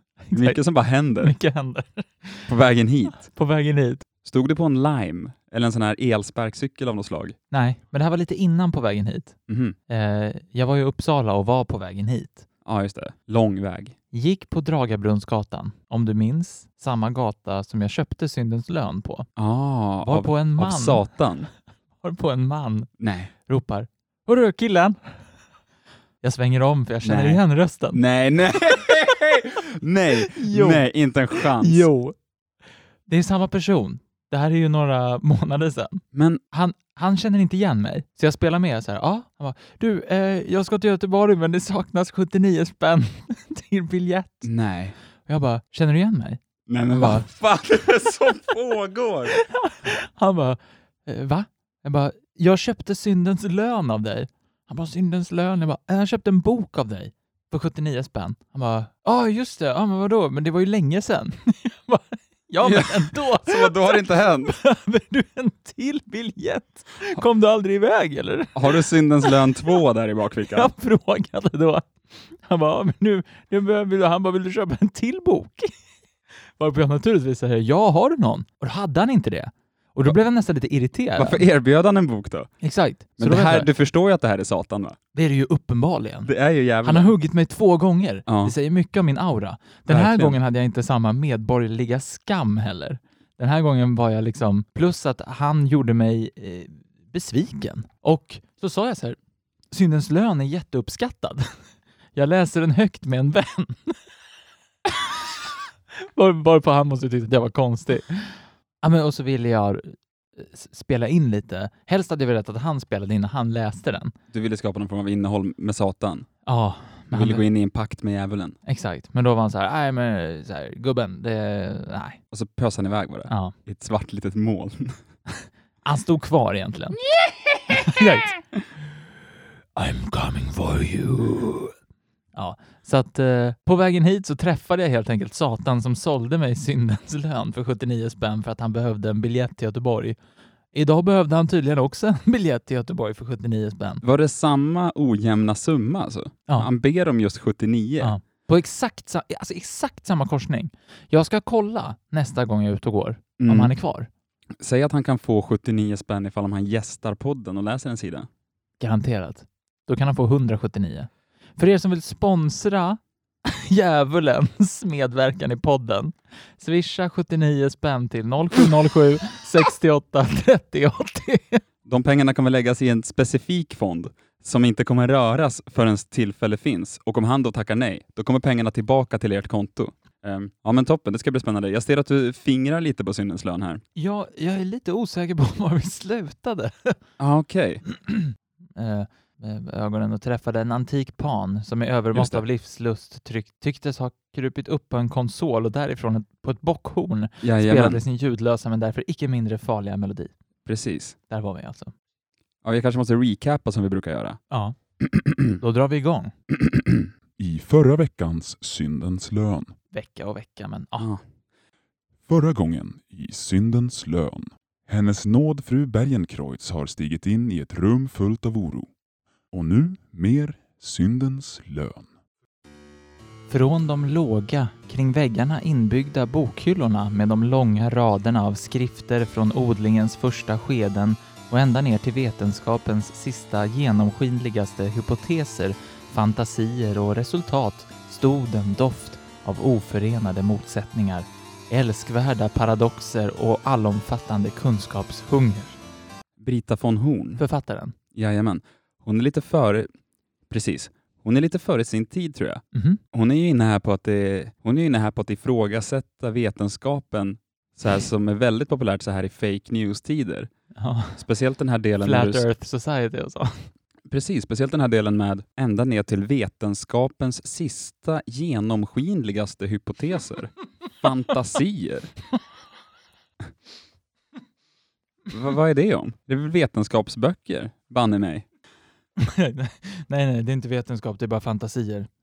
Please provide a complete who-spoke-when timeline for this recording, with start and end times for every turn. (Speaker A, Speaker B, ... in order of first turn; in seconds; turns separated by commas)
Speaker A: 0.3-0.6, Speaker B: 0.3-1.4, Speaker A: 1.2-2.5, Speaker B: 2.5-3.3, Speaker A: 3.2-4.0, Speaker B: 4.2-7.4, Speaker A: 7.5-9.3, Speaker B: 9.5-9.8, Speaker A: 9.9-12.5, Speaker B: 12.7-14.0, Speaker A: 14.1-19.3, Speaker B: 19.4-21.5, Speaker A: 20.0-21.1, Speaker A: 22.0-22.9, Speaker B: 23.0-23.3, Speaker A: 23.5-25.2, Speaker A: 26.2-28.0, Speaker B: 27.0-31.9, Speaker A: 30.3-32.1, Speaker A: 33.1-44.5, Speaker B: 36.1-36.4, Speaker B: 44.4-45.0, Speaker A: 45.3-46.4, Speaker B: 46.7-49.3, Speaker A: 46.9-47.3, Speaker A: 49.3-69.3, Speaker B: 62.6-64.6, Speaker B: 68.6-70.7, Speaker A: 70.5-71.9, Speaker A: 72.4-75.7, Speaker A: 76.6-81.4, Speaker B: 81.2-82.5, Speaker A: 82.6-83.7, Speaker B: 83.2-85.0, Speaker A: 85.2-86.3, Speaker B: 86.3-87.2, Speaker A: 86.8-99.2, Speaker B: 88.3-88.5, Speaker B: 89.9-90.4, Speaker A: 99.7-101.5, Speaker A: 102.2-104.0, Speaker A: 106.1-114.1, Speaker B: 114.3-116.3, Speaker A: 116.5-117.5, Speaker B: 117.1-118.6, Speaker A: 118.7-122.2, Speaker B: 122.3-125.0, Speaker A: 123.3-123.5, Speaker A: 125.8-127.0, Speaker A: 127.7-128.3, Speaker A: 129.8-131.7, Speaker A: 132.3-140.2, Speaker A: 140.7-144.0, Speaker B: 144.0-148.1, Speaker A: 148.0-154.1, Speaker B: 153.4-153.7, Speaker B: 154.6-158.3, Speaker A: 158.8-171.6, Speaker B: 171.9-183.8, Speaker A: 184.0-187.0, Speaker B: 187.2-187.8, Speaker A: 188.0-200.3, Speaker B: 192.1-192.4, Speaker B: 197.4-198.0, Speaker B: 200.7-201.2, Speaker A: 201.3-201.9, Speaker B: 202.6-204.4, Speaker A: 204.5-204.8, Speaker B: 205.0-205.5, Speaker A: 205.6-206.3, Speaker B: 206.6-207.1, Speaker C: 207.4-209.7, Speaker A: 209.9-211.1, Speaker C: 212.3-218.9, Speaker C: 219.5-222.1, Speaker A: 223.5-245.8, Speaker B: 246.4-247.4, Speaker A: 247.4-247.9, Speaker B: 248.2-249.9, Speaker B: 250.5-260.5, Speaker A: 252.7-253.0, Speaker A: 260.8-261.2, Speaker B: 261.2-262.5, Speaker A: 262.0-263.7, Speaker B: 264.1-272.1, Speaker B: 275.3-278.5, Speaker A: 279.2-282.1